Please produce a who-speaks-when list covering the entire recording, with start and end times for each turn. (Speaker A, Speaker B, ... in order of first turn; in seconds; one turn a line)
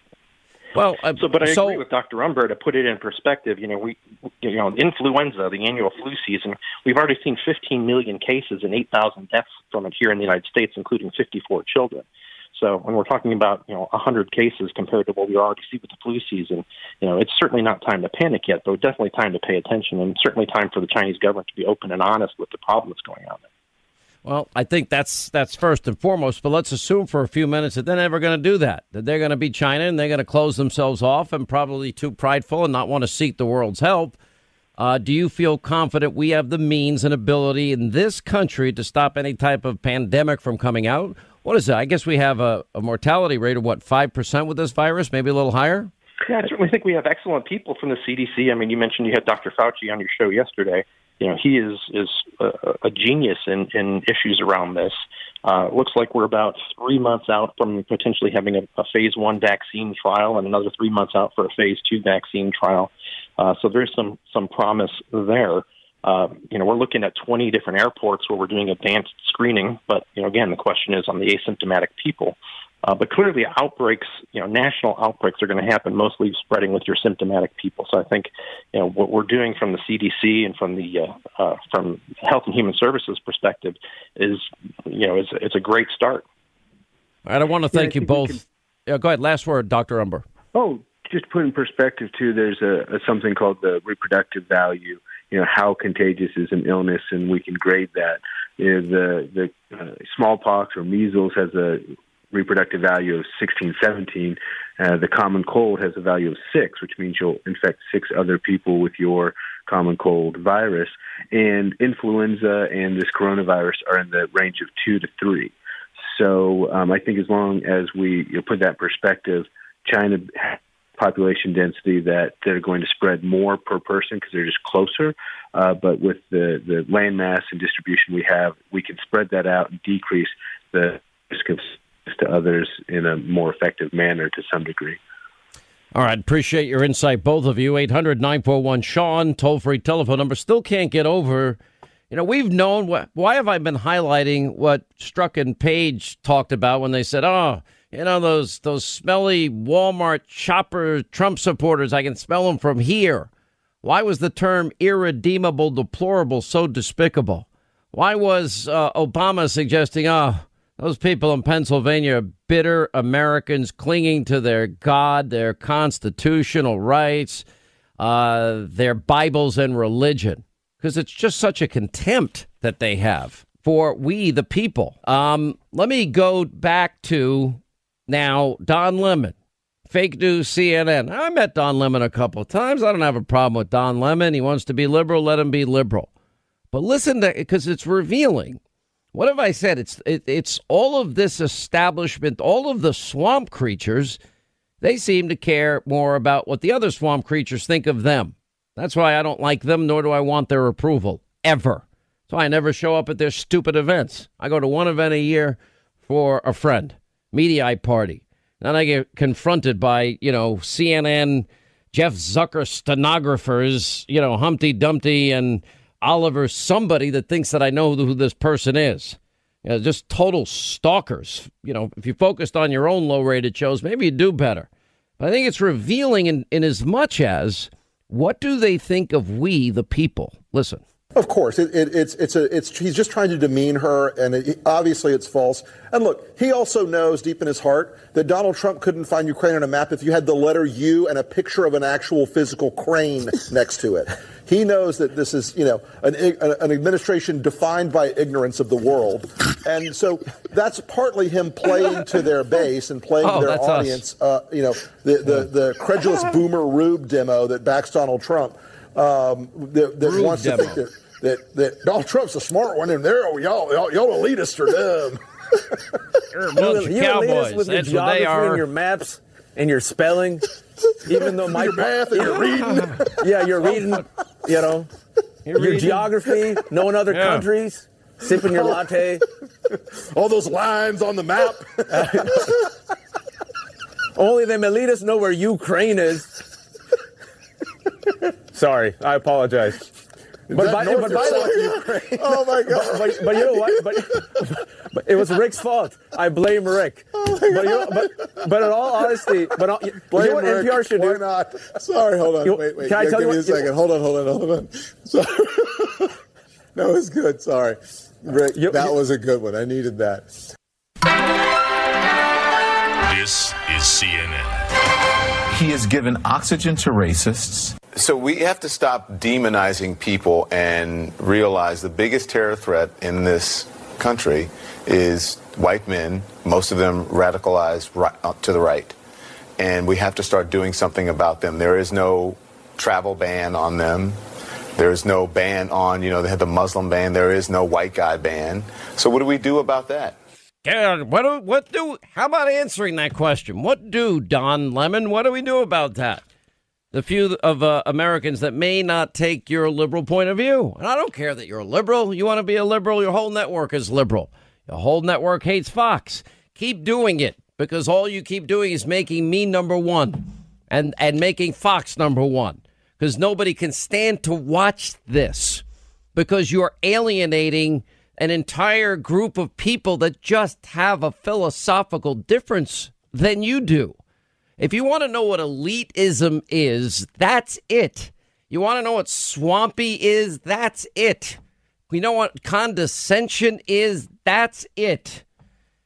Speaker A: 0.7-1.8
Speaker B: 1.2-23.5
Speaker A: 24.2-34.2
Speaker A: 34.8-45.9
Speaker B: 46.3-86.2
Speaker A: 87.2-90.2
Speaker C: 87.7-88.4
Speaker C: 90.5-135.0
Speaker A: 135.9-141.6
Speaker A: 142.1-153.3
Speaker A: 153.8-167.4
Speaker A: 168.0-179.3
Speaker A: 179.9-186.1
Speaker A: 186.7-188.6
Speaker A: 189.1-194.2
Speaker A: 194.8-224.7
Speaker A: 225.2-230.8
Speaker D: 231.1-265.2
Speaker A: 253.2-254.0
Speaker A: 260.0-260.8
Speaker A: 266.3-268.6
Speaker E: 266.5-270.4
Speaker E: 271.0-274.9
Speaker D: 271.1-273.2
Speaker A: 272.6-273.0
Speaker A: 275.4-276.1
Speaker E: 275.6-279.2
Speaker A: 277.1-277.4
Speaker D: 278.5-278.8
Speaker D: 280.1-282.6
Speaker E: 281.9-282.5
Speaker E: 284.1-286.4
Speaker E: 288.5-289.8
Speaker E: 290.5-301.2
Speaker D: 290.5-293.9
Speaker D: 297.2-299.5
Speaker D: 300.1-306.1
Speaker E: 302.4-303.7
Speaker D: 306.7-310.3
Speaker E: 308.5-308.9
Speaker F: 313.0-314.5
Speaker F: 315.5-317.8
Speaker G: 317.9-328.9
Speaker G: 329.6-334.2
Speaker G: 334.8-340.1
Speaker A: 340.6-346.2
Speaker A: 346.9-365.6
Speaker A: 366.1-373.9
Speaker A: 374.6-381.4
Speaker A: 381.9-385.2